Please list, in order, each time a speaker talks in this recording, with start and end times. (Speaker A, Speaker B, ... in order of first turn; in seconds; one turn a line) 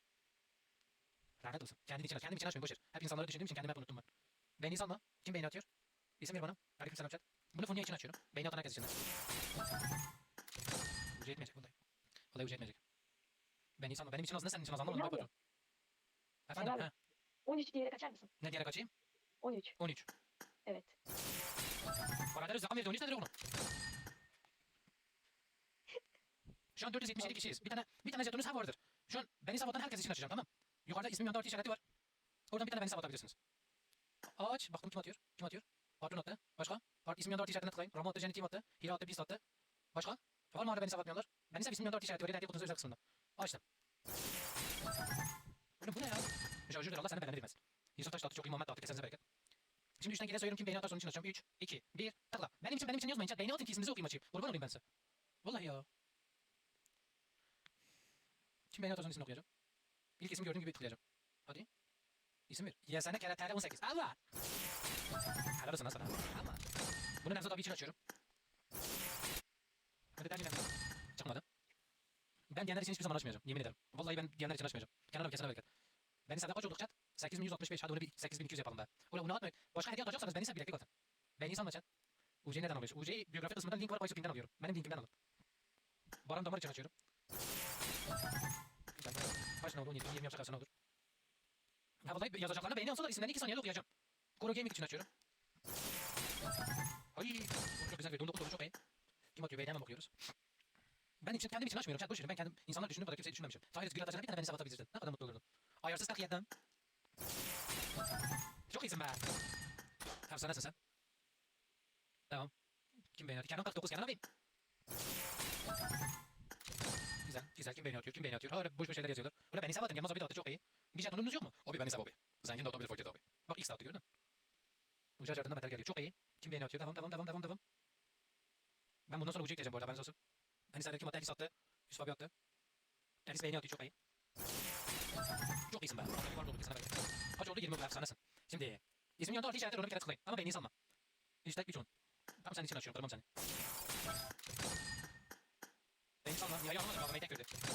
Speaker A: 1.4-4.0
Speaker A: 4.6-5.7
Speaker A: 6.2-8.9
Speaker A: 11.1-11.7
Speaker A: 12.3-12.8
Speaker A: 13.8-15.3
Speaker B: 14.9-15.3
Speaker A: 16.5-16.9
Speaker B: 16.6-16.9
Speaker B: 17.4-18.3
Speaker A: 18.4-18.9
Speaker B: 19.4-19.7
Speaker A: 19.8-20.1
Speaker B: 20.6-20.9
Speaker A: 22.3-23.3
Speaker A: 26.8-31.8
Speaker A: 32.5-33.4
Speaker A: 34.4-39.4
Speaker A: 39.9-43.6
Speaker A: 45.8-49.2
Speaker A: 50.0-54.8
Speaker A: 55.4-55.9
Speaker A: 58.7-59.4
Speaker A: 60.2-61.7
Speaker A: 62.5-64.2
Speaker A: 65.5-66.6
Speaker A: 67.2-68.0
Speaker A: 70.2-71.4
Speaker A: 72.5-75.7
Speaker A: 76.3-81.8
Speaker A: 82.4-85.1
Speaker A: 86.2-86.9
Speaker A: 88.9-90.7
Speaker A: 92.0-93.8
Speaker A: 94.4-95.1
Speaker A: 97.1-98.7
Speaker A: 99.3-100.1
Speaker A: 101.2-106.5
Speaker A: 108.7-109.2
Speaker A: 110.3-110.8
Speaker A: 113.1-114.2
Speaker A: 117.2-124.0
Speaker A: 125.2-127.6
Speaker A: 129.1-130.1
Speaker A: 130.7-132.3
Speaker A: 133.2-133.9
Speaker A: 135.7-140.7
Speaker A: 141.4-141.9
Speaker A: 142.4-143.2
Speaker A: 146.2-147.5